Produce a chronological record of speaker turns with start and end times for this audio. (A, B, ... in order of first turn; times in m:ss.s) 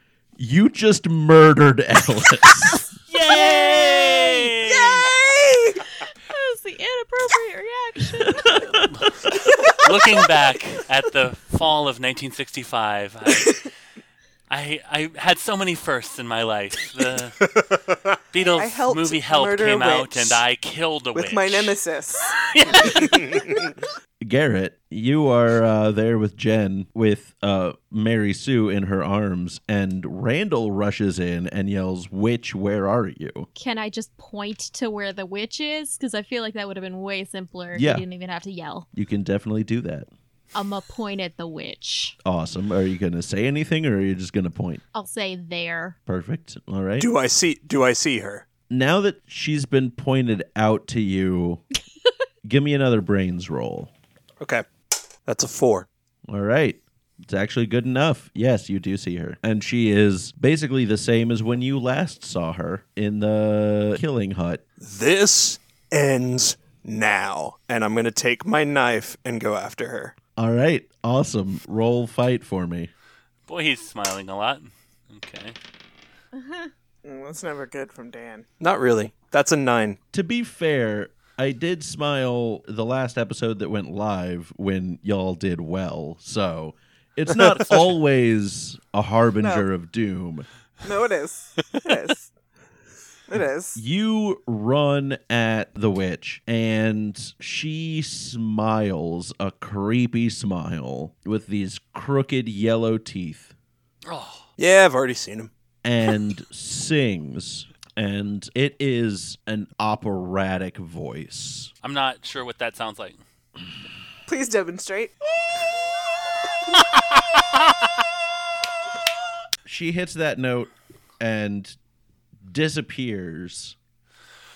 0:00.4-0:02.8 A
0:03.1-0:05.1 B
0:03.3-0:05.1 C
0:05.0-0:05.8 D
0:06.0-0:08.9 C
0:08.4-0:09.3 A
0:08.9-0:13.7 B
0:14.5-0:17.6 B
0:18.3-0:21.7 B
0:18.4-0:20.4 D
0:21.1-0:23.1 D
0:22.5-0:23.2 B
0:24.2-0:33.5 A
0:33.6-0:38.9 C
0:37.7-0:38.0 A
0:38.9-0:40.1 A
0:40.5-0:42.2 C
0:42.2-0:44.8 A
0:44.9-0:46.0 C
0:46.1-0:47.1 A
0:47.0-0:48.4 E
0:48.7-0:51.6 A
0:52.4-0:53.9 A
0:55.3-0:55.9 E
0:56.3-1:04.6 A
1:04.8-1:10.2 E
1:10.4-1:12.9 A
1:13.5-1:15.6 B
1:17.0-1:18.4 D
1:18.6-1:20.0 E
1:20.1-1:30.4 A
1:27.5-1:27.8 E
1:29.4-1:29.7 D
1:30.8-1:32.3 D
1:33.3-1:33.8 D
1:33.7-1:43.5 A
1:44.0-1:44.5 B
1:44.6-1:45.5 E
1:45.8-1:51.7 A
1:51.8-1:53.2 B
1:54.3-1:55.1 D
1:56.9-1:57.2 B
1:59.6-2:01.8 A
2:02.4-2:03.8 A